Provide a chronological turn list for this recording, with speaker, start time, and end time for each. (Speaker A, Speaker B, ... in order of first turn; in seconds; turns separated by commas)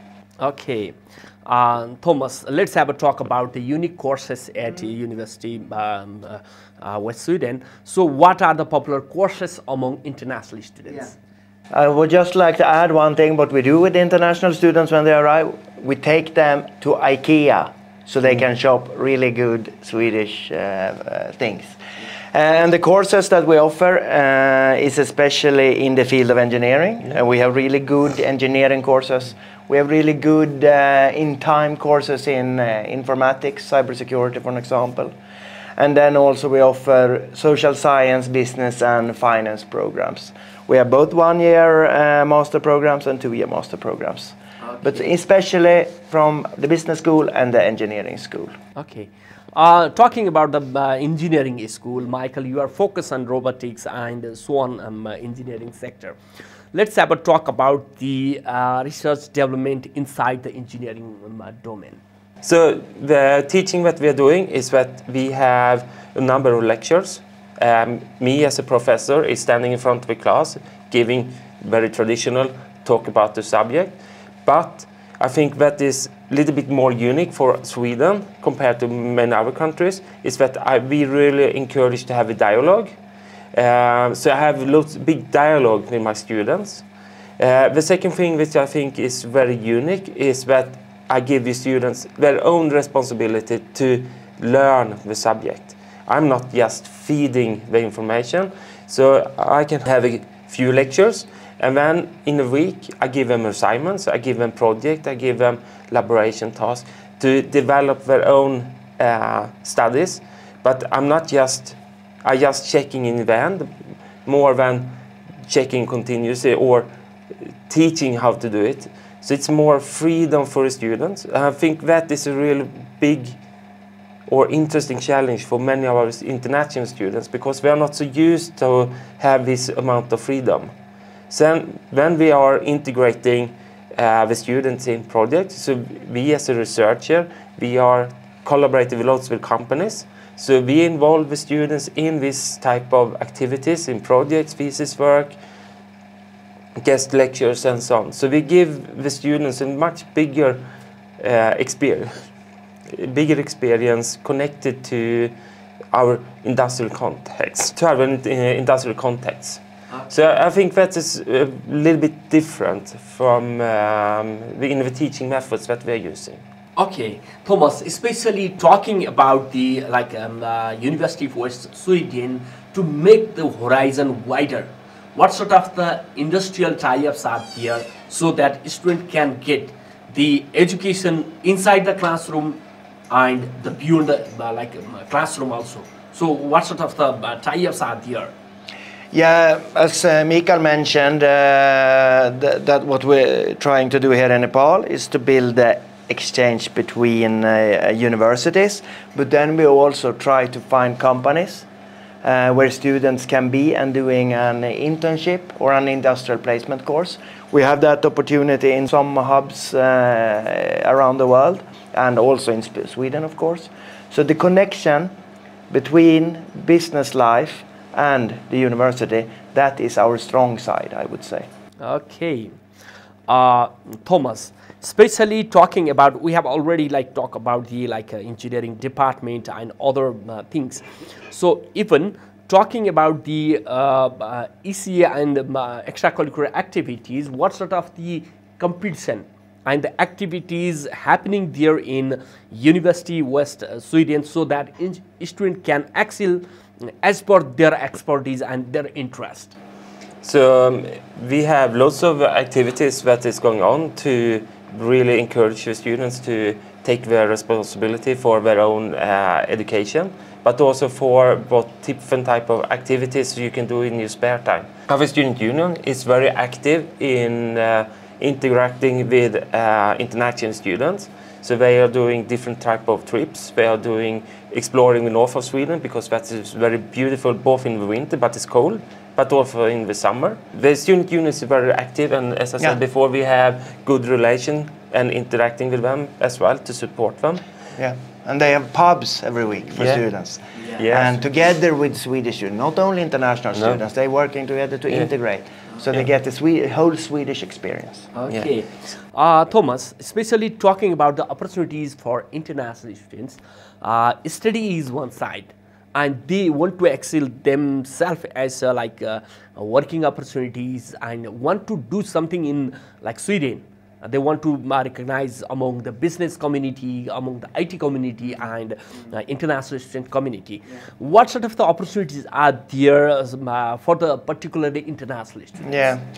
Speaker A: 0.4-11.2, Speaker B: 11.7-21.7, Speaker B: 22.3-35.1, Speaker B: 35.8-48.5, Speaker A: 44.7-45.0, Speaker A: 48.8-56.1, Speaker A: 56.7-62.0, Speaker C: 62.4-82.9, Speaker C: 83.5-86.8, Speaker C: 87.4-113.7, Speaker C: 114.2-114.9, Speaker C: 115.5-116.9, Speaker C: 117.5-123.4, Speaker C: 124.3-130.7, Speaker C: 131.3-145.3, Speaker C: 146.8-150.6, Speaker C: 151.2-152.2, Speaker C: 152.9-155.3, Speaker C: 155.9-166.4, Speaker A: 166.8-188.3, Speaker B: 189.1-201.7, Speaker B: 202.2-215.1, Speaker B: 215.7-221.5, Speaker A: 221.8-222.5, Speaker A: 223.3-246.4, Speaker A: 247.0-249.5, Speaker C: 250.2-287.4, Speaker B: 287.8-298.1, Speaker C: 290.7-291.2, Speaker C: 293.5-293.8, Speaker A: 298.1-325.9, Speaker B: 325.6-326.0